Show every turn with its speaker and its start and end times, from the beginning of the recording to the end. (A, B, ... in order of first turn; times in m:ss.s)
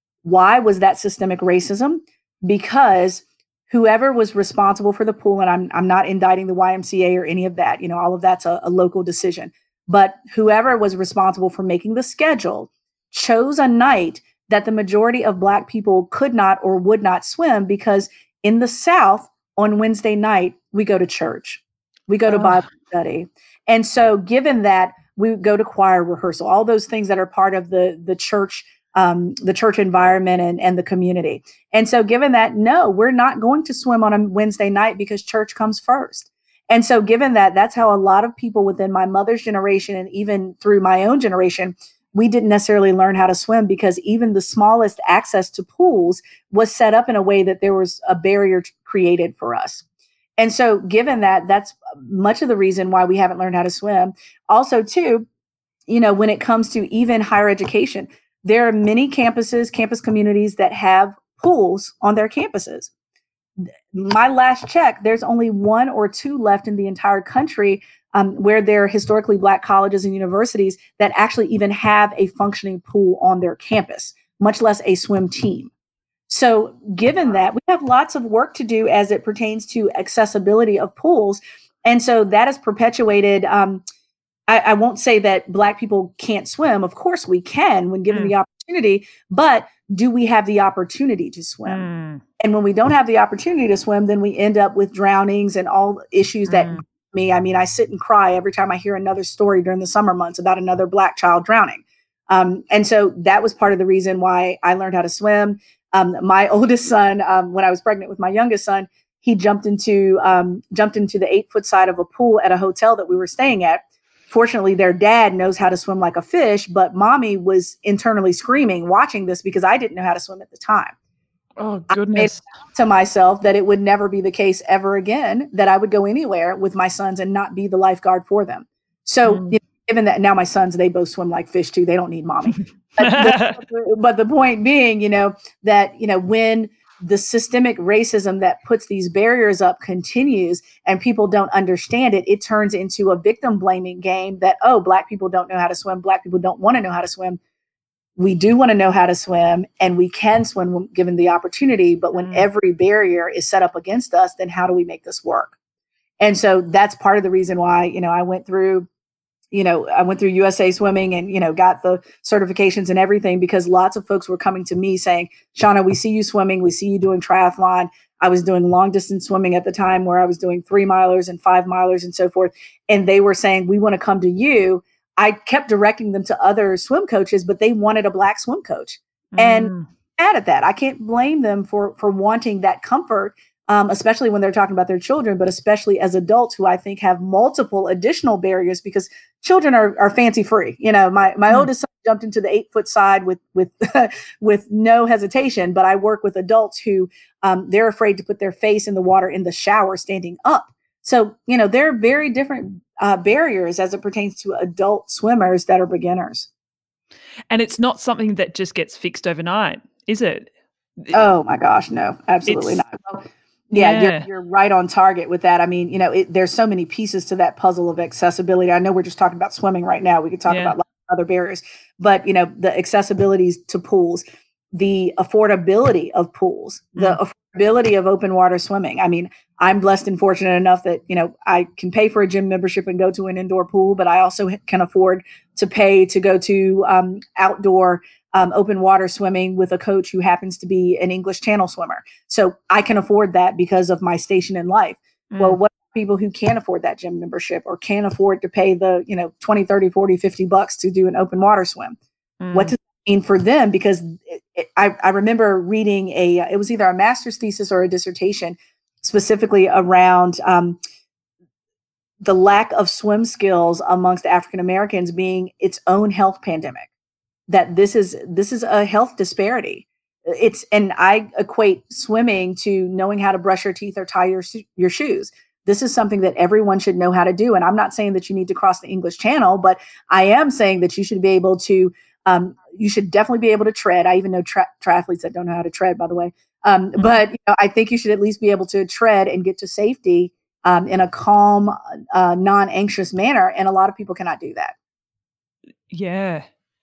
0:00.2-0:49.8 A
0:22.3-0:22.6 B
0:50.4-0:55.3 A
0:55.9-1:02.9 A
1:03.9-1:15.7 A
1:16.3-1:23.8 A
1:24.5-1:31.8 A
1:31.7-1:32.2 B
1:32.4-2:00.9 A
1:36.5-1:36.8 B
2:01.6-2:02.4 B
2:01.9-2:27.4 A
2:09.2-2:09.6 B
2:12.5-2:13.6 B
2:28.2-2:35.5 A
2:32.1-2:32.5 B
2:36.2-2:38.9 A
2:39.5-3:26.5 A
2:59.3-2:59.9 B
3:27.5-3:30.5 B
3:31.1-4:12.0 A
3:32.5-3:32.8 B
3:33.8-3:34.2 B
3:40.5-3:40.7 B
4:05.3-4:05.6 B
4:12.4-4:12.7 B
4:12.5-4:20.8 A
4:22.2-4:26.9 A
4:27.5-4:54.7 A
4:55.9-4:56.4 B